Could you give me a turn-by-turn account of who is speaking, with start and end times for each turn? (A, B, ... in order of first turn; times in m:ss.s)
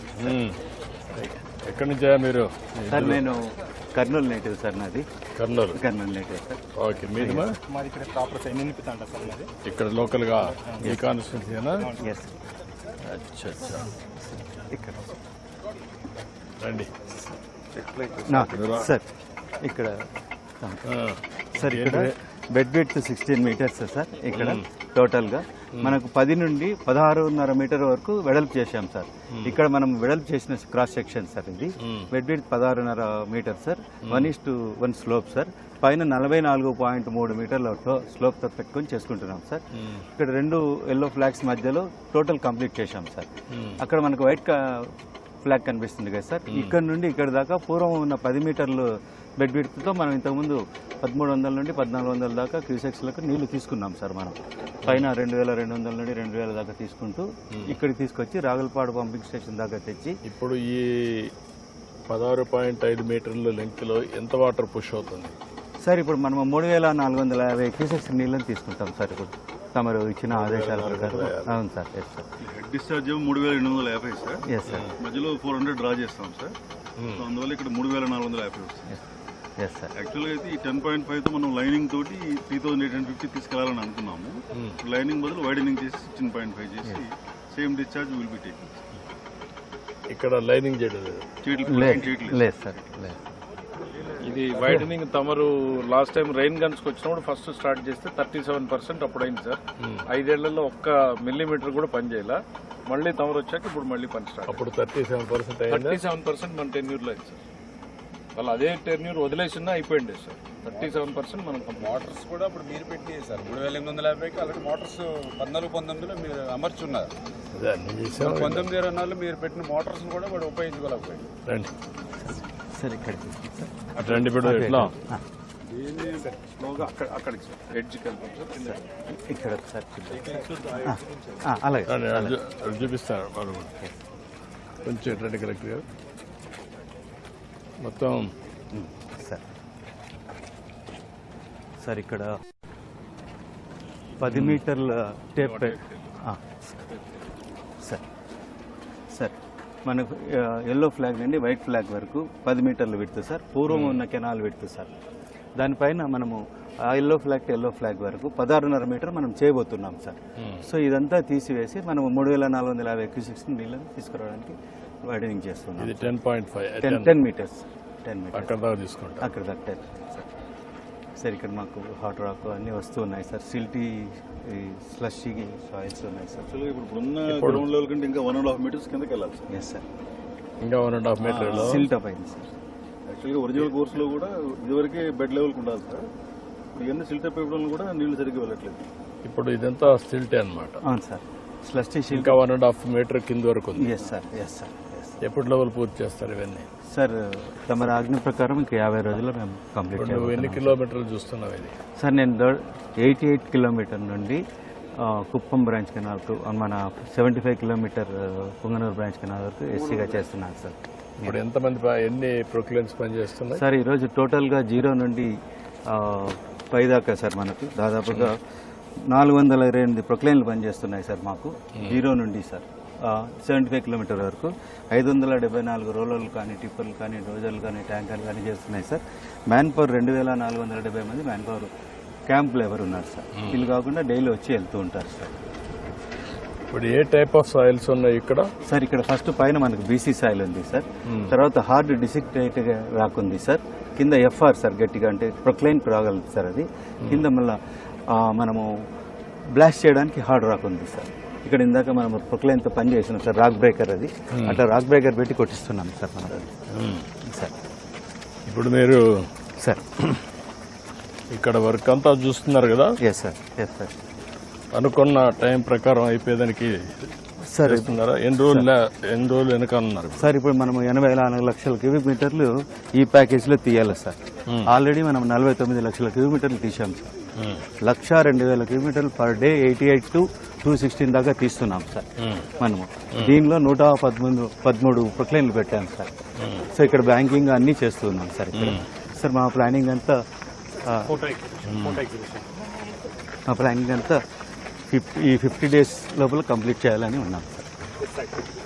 0:00.2-0:00.6 A
0:01.2-0:03.2 A
0:02.9-0:05.1 B
0:05.4-0:05.8 A
0:05.7-0:06.6 B
0:06.8-0:07.6 A
0:07.2-0:07.5 B
0:07.7-0:09.5 C
0:09.6-0:11.9 A
0:12.0-0:12.4 B
0:13.1-0:13.9 A
0:14.2-0:15.2 B
0:16.6-0:16.9 A
0:17.1-0:17.4 B
0:18.2-0:19.1 B
0:18.5-0:18.9 A
0:19.6-0:20.1 B
0:20.6-0:20.9 B
0:20.9-0:22.2 A
0:21.6-0:48.9 B
0:24.3-0:24.6 A
0:31.8-0:32.1 A
0:34.1-0:34.3 A
0:39.8-0:40.0 A
0:43.5-0:43.8 A
0:46.5-0:46.8 A
0:49.4-1:00.2 B
1:00.2-1:01.3 A
1:02.1-1:05.4 A
1:05.8-1:12.3 B
1:10.3-1:11.6 A
1:12.4-1:14.4 D
1:14.5-1:14.9 B
1:15.0-1:16.6 D
1:17.0-1:17.3 A
1:17.1-1:19.0 D
1:19.6-1:19.9 B
1:20.0-1:28.8 D
1:30.1-1:31.2 A
1:31.4-1:32.5 D
1:31.7-1:33.2 B
1:34.1-1:44.6 E
1:39.8-1:40.0 A
1:44.5-1:46.0 A
1:45.7-1:47.4 E
1:48.4-1:52.1 E
1:50.7-1:51.1 F
1:51.8-1:57.1 F
1:57.5-1:58.7 A
1:58.2-2:01.3 F
2:02.2-2:05.2 B
2:04.0-2:04.9 A
2:05.7-2:06.3 D
2:06.2-2:08.8 E
2:08.5-2:12.4 B
2:10.2-2:11.0 E
2:11.9-2:13.8 A
2:14.8-2:15.8 A
2:17.8-2:18.3 A
2:18.7-2:19.4 B
2:21.8-2:22.4 B
2:24.2-2:26.4 B
2:24.2-2:24.6 A
2:29.1-2:34.9 B
2:33.7-2:34.0 A
2:35.6-2:44.6 B
2:40.4-2:40.6 A
2:45.1-2:46.1 B
2:45.8-2:47.2 A
2:46.8-2:48.6 B
2:48.3-2:49.3 A
2:49.2-2:50.3 B
2:51.2-2:56.5 B
2:56.5-2:59.5 D
2:57.3-2:57.7 A
2:59.5-2:59.8 B
3:00.6-3:01.9 A
3:01.2-3:01.8 D
3:01.5-3:02.5 B
3:03.1-3:06.1 D
3:06.8-3:08.9 D
3:09.2-3:10.8 A
3:10.8-3:12.4 B
3:12.1-3:14.1 A
3:13.8-3:15.2 B
3:15.2-3:16.7 A
3:16.9-3:20.8 B
3:20.0-3:21.8 A
3:22.0-3:24.4 B
3:25.0-3:31.4 B
3:31.2-3:33.6 A
3:33.5-3:35.3 B
3:35.9-3:38.4 B
3:39.1-3:51.7 B
3:52.3-3:55.3 B
3:53.4-3:53.7 A
3:56.7-3:58.5 A
3:58.6-4:07.6 B
4:08.1-4:08.7 B
4:09.5-4:16.6 B
4:14.3-4:14.6 A
4:16.7-4:17.1 A
4:17.3-4:17.5 B
4:18.5-4:19.0 A
4:21.3-4:23.0 A
4:23.0-4:24.0 B
4:24.7-4:27.1 A
4:27.5-4:28.7 B
4:27.6-4:30.3 A
4:30.2-4:37.1 B
4:37.4-4:37.6 A
4:37.8-4:42.1 B
4:42.2-4:42.5 A
4:42.6-4:46.1 B
4:46.4-4:46.7 A
4:46.7-4:50.2 B
4:48.5-4:48.8 A
4:50.8-4:51.2 B
4:51.2-4:52.5 C
4:51.6-4:52.0 A
4:53.5-4:54.2 B
4:54.9-4:57.7 B